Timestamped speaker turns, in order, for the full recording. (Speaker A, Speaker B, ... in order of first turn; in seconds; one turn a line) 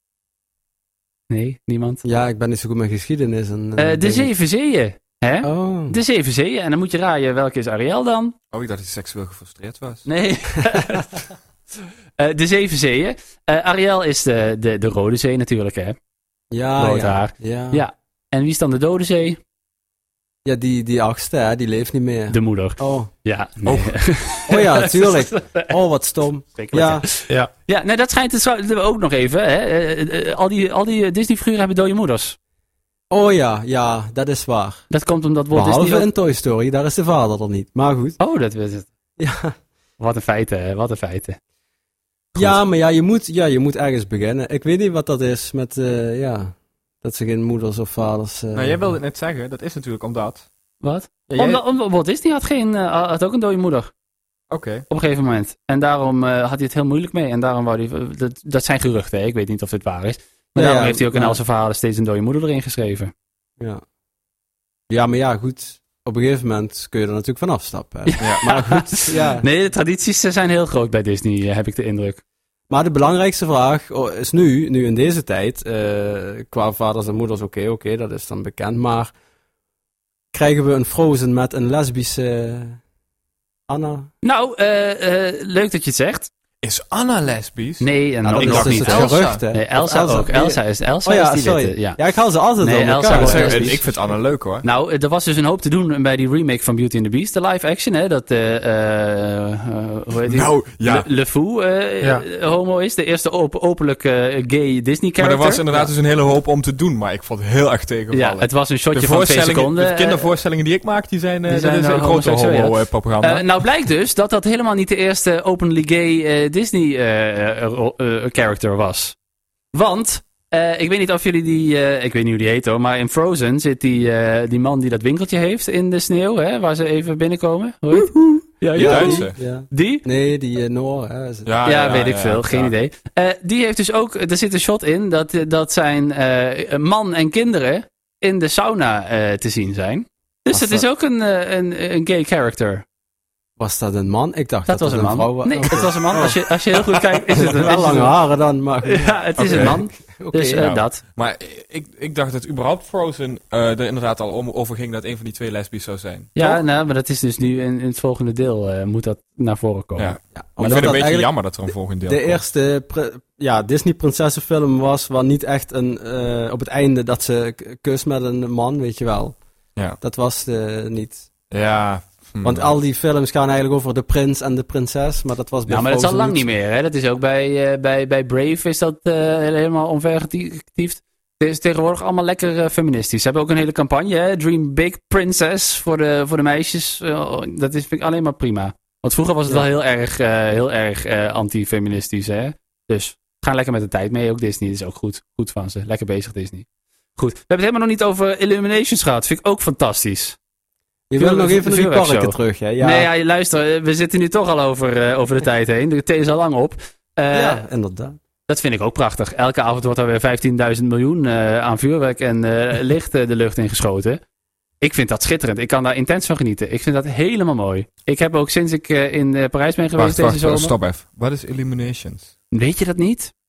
Speaker A: 1.3-2.0
Speaker B: 2.0-4.3
Speaker A: 3.8-8.3
Speaker B: 5.4-6.0
Speaker C: 8.5-10.1
Speaker A: 10.1-11.2
Speaker A: 12.2-16.0
Speaker B: 16.5-17.8
Speaker A: 16.8-19.4
Speaker B: 20.4-23.1
Speaker A: 22.3-25.7
Speaker C: 23.6-24.0
Speaker B: 24.5-27.1
Speaker A: 26.6-32.4
Speaker B: 33.1-34.9
Speaker A: 34.9-36.1
Speaker B: 35.5-38.2
Speaker A: 38.2-38.9
Speaker B: 39.2-39.5
Speaker A: 40.0-41.4
Speaker B: 42.4-48.9
Speaker C: 48.5-50.5
Speaker A: 50.8-53.9
Speaker C: 51.3-51.6
Speaker C: 54.5-54.8
Speaker A: 54.9-63.1
Speaker B: 60.6-61.4
Speaker B: 64.9-69.5
Speaker A: 68.1-72.2
Speaker B: 72.7-79.1
Speaker B: 80.3-82.8
Speaker B: 83.7-84.1
Speaker A: 84.2-86.3
Speaker C: 86.6-89.4
Speaker A: 87.8-92.0
Speaker B: 88.2-93.8
Speaker A: 92.6-93.9
Speaker C: 93.1-94.7
Speaker A: 94.6-105.9
Speaker C: 100.3-101.1
Speaker C: 105.2-113.5
Speaker A: 108.1-110.2
Speaker A: 111.5-119.2
Speaker A: 119.7-130.0
Speaker B: 128.7-131.5
Speaker C: 128.8-129.4
Speaker C: 131.4-132.7
Speaker A: 131.7-142.8
Speaker B: 140.5-140.8
Speaker B: 143.6-146.4
Speaker A: 144.7-148.2
Speaker B: 147.3-150.7
Speaker A: 148.8-151.0
Speaker C: 149.4-149.8
Speaker C: 150.6-156.6
Speaker A: 156.4-161.0
Speaker C: 160.0-162.4
Speaker B: 160.4-169.4
Speaker B: 170.0-171.3
Speaker C: 171.5-172.8
Speaker B: 172.4-176.5
Speaker A: 175.7-196.7
Speaker A: 197.2-200.4
Speaker B: 201.1-203.1
Speaker A: 201.2-207.6
Speaker B: 207.3-208.2
Speaker A: 208.5-214.2
Speaker A: 214.8-220.7
Speaker C: 220.0-222.3
Speaker A: 222.5-223.3